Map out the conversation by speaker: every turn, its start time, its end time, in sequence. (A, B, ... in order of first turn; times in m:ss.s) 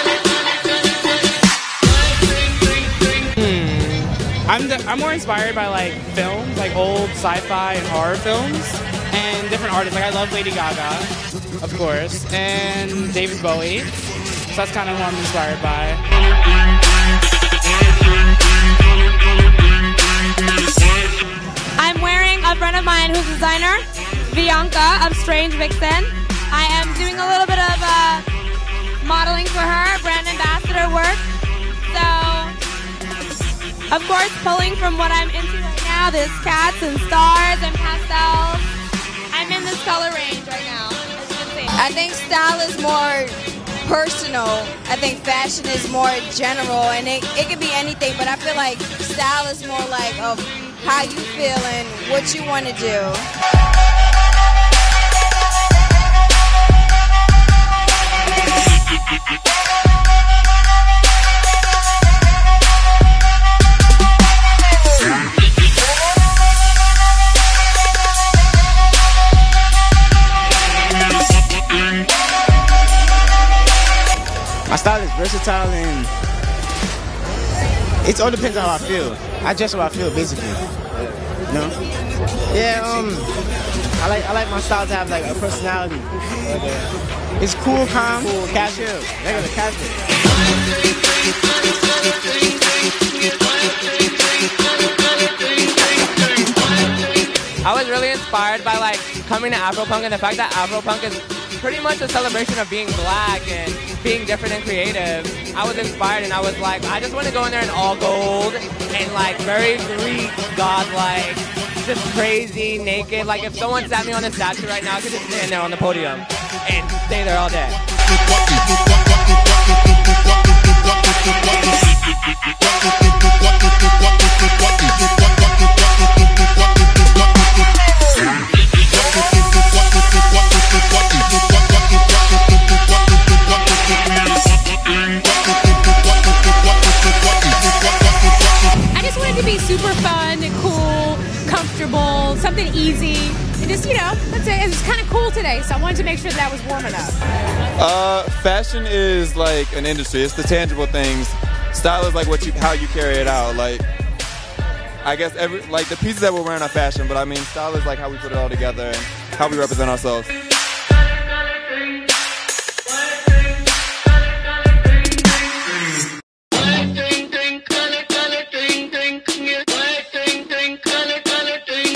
0:03.7-0:04.1 A
0:04.5-0:13.9 B
0:14.5-0:16.0 B
0:21.8-0:28.2 C
0:29.0-0:31.2 C
0:31.9-0:32.5 C
0:33.9-0:38.6 C
0:39.3-0:41.7 C
0:41.8-0:53.3 D
1:14.7-1:16.1 E
1:18.0-1:20.6 E
1:21.5-1:21.8 E
1:22.5-1:23.3 E
1:24.0-1:29.9 E
1:37.6-1:57.8 A
2:18.9-2:27.2 F
2:27.8-2:33.8 G
2:35.0-2:40.3 G